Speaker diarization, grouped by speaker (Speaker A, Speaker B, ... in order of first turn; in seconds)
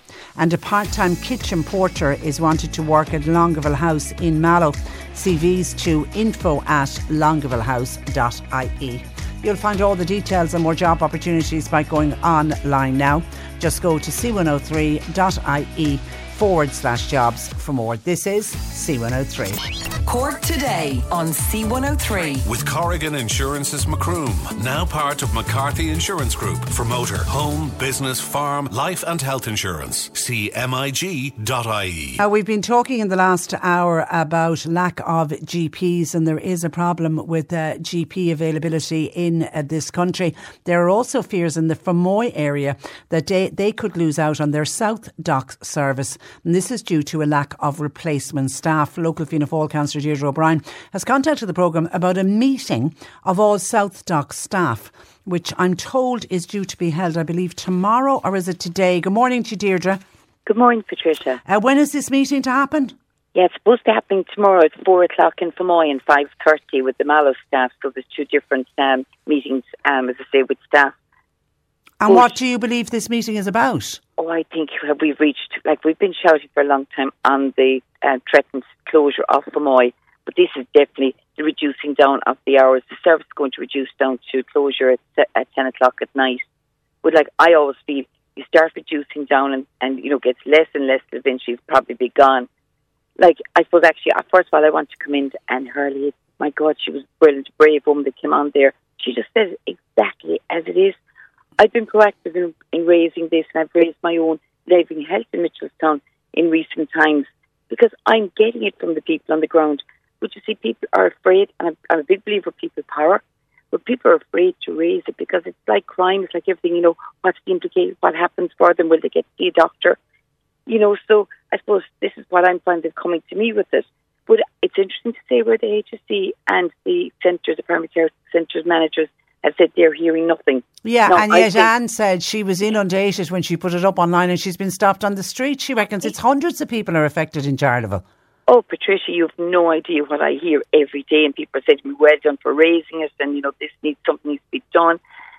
Speaker A: 0.4-19.6, 32.2-60.0, 61.5-63.0, 72.0-74.0, 130.8-138.0
Speaker B: 20.0-22.4
Speaker C: 22.4-32.2
Speaker D: 60.5-61.4, 63.3-70.9, 74.2-86.4, 87.0-92.5, 93.2-101.0, 101.6-120.0, 120.7-131.7, 138.5-145.0